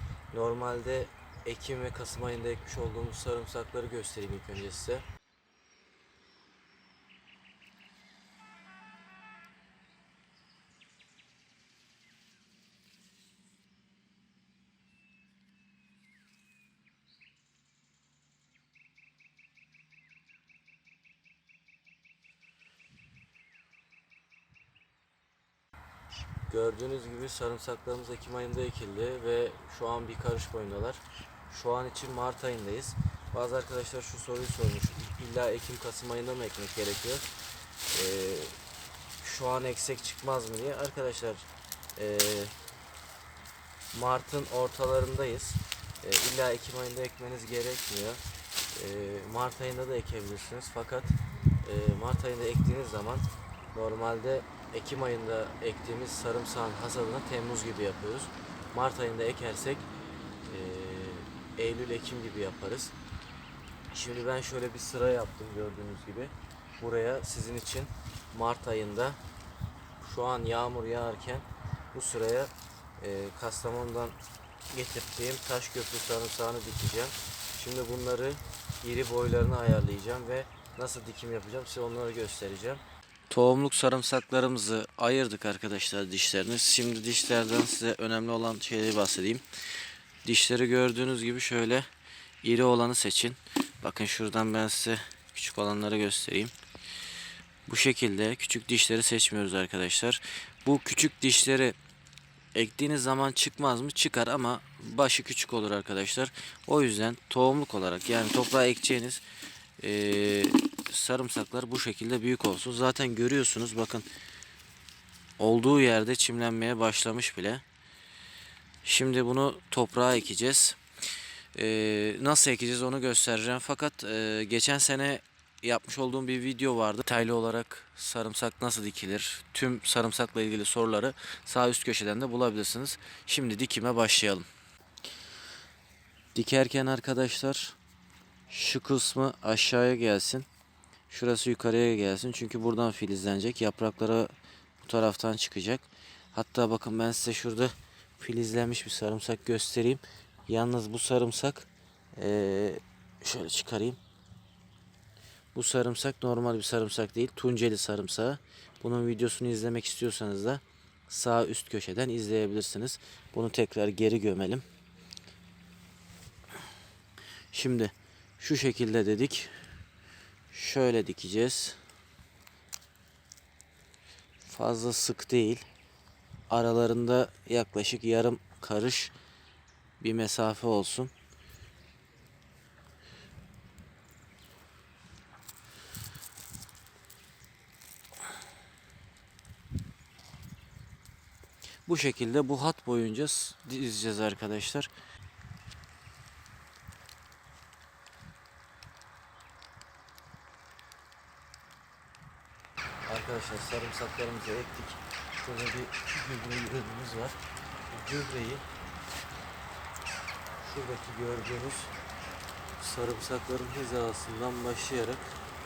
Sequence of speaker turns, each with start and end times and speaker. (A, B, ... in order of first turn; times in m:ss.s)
0:00.3-0:05.0 A
0:26.5-0:37.3 A
0:37.9-0:38.6 A
0:39.2-0:42.5 A
0:43.9-0:48.2 A
0:48.7-0:59.8 A
1:00.4-1:02.9 A
1:03.9-1:09.2 A
1:10.0-1:14.2 A
1:14.7-1:29.4 A
1:30.2-1:31.8 A
1:32.4-1:36.5 A
1:37.6-1:41.8 A
1:42.5-1:49.2 A
1:49.8-1:54.0 A
1:55.4-1:57.6 A
1:58.8-2:00.8 A
2:01.5-2:14.4 A
2:16.3-2:17.8 A
2:18.5-2:20.5 A
2:21.1-2:34.0 A
2:35.5-2:44.6 A
2:47.5-2:49.5 A
2:50.5-2:51.8 A
2:54.4-2:55.6 A
2:56.5-2:59.1 A
3:00.0-3:01.1 A
3:11.8-3:14.9 A
3:23.0-3:27.4 A
3:27.9-3:28.6 A
3:30.6-3:31.9 A
3:32.8-3:35.4 A